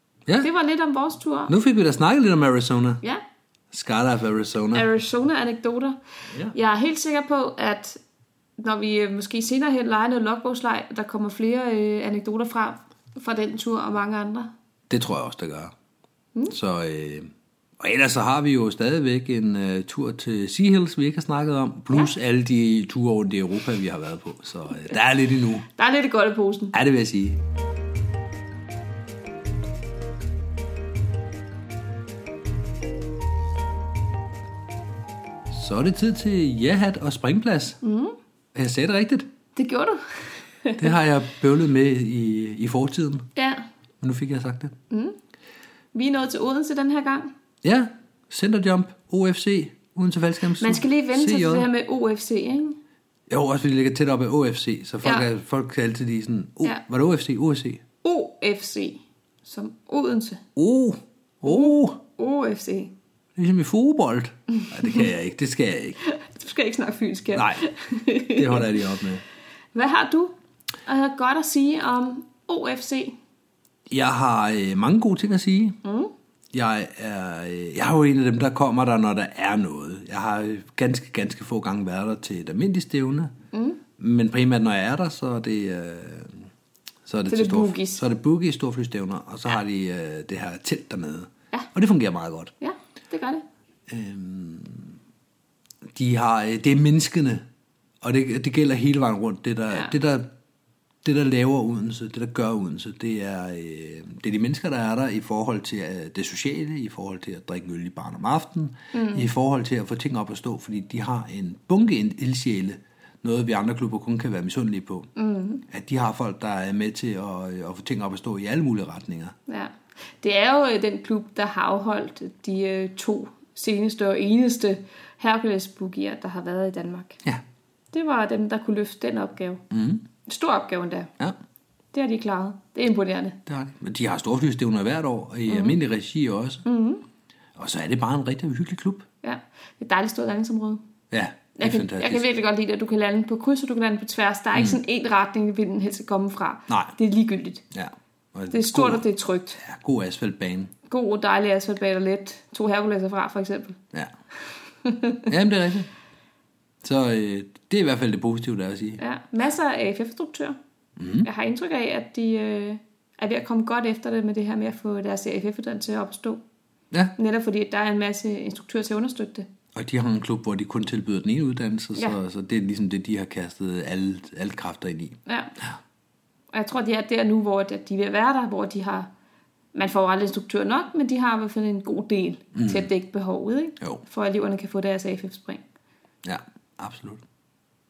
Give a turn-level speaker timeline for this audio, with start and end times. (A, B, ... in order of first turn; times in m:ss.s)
0:00.4-0:01.5 A
0:01.5-0:03.0 B
0:03.7-0:04.9 B
0:04.7-0:08.0 A
0:08.6-0:14.5 A
0:14.9-0:15.7 B
0:16.5-0:25.7 B
0:25.8-0:26.8 A
0:26.7-0:27.4 B
0:35.5-0:37.8 B
0:37.8-0:38.2 A
0:38.5-0:39.3 B
0:39.5-0:40.9 A
0:40.8-0:43.2 B
0:43.4-0:43.6 A
0:44.0-0:44.7 B
0:44.9-0:45.2 A
0:45.9-0:47.3 A
0:47.6-0:51.7 B
0:50.6-0:52.8 A
0:53.3-0:57.8 B
0:58.0-1:00.4 A
1:00.6-1:02.0 B
1:01.4-1:02.9 A
1:03.4-1:06.0 B
1:06.0-1:08.8 A
1:07.3-1:07.6 B
1:08.3-1:09.2 B
1:09.7-1:10.3 A
1:10.8-1:13.2 A
1:13.9-1:15.8 B
1:15.8-1:16.1 A
1:16.5-1:23.3 B
1:23.5-1:23.8 A
1:24.0-1:26.5 B
1:27.0-1:32.5 B
1:27.3-1:28.0 A
1:32.6-1:33.4 A
1:33.9-1:35.0 B
1:35.9-1:37.4 B
1:38.0-1:40.3 B
1:41.0-1:55.1 B
1:48.9-1:49.2 A
1:55.2-1:55.6 A
1:55.7-1:59.3 B
1:59.5-2:07.2 A
2:07.9-2:09.6 A
2:09.7-2:10.0 B
2:10.2-2:11.1 A
2:11.9-2:13.4 A
2:13.4-2:16.6 B
2:15.5-2:15.8 A
2:16.6-2:17.0 A
2:17.6-2:19.1 B
2:19.2-2:20.8 A
2:21.1-2:22.2 B
2:21.6-2:27.6 A
2:26.7-2:26.9 B
2:27.7-2:29.0 B
2:28.5-2:29.6 A
2:29.6-2:30.7 B
2:30.9-2:33.8 A
2:34.8-2:35.3 A
2:35.3-2:35.9 B
2:36.8-2:39.0 B
2:39.0-2:40.6 A
2:41.0-2:41.3 B
2:41.2-2:46.4 A
2:47.2-2:49.5 A
2:49.7-2:55.8 B
2:56.5-2:59.1 A
2:59.7-3:05.6 A
3:02.5-3:02.9 B
3:06.2-3:07.2 B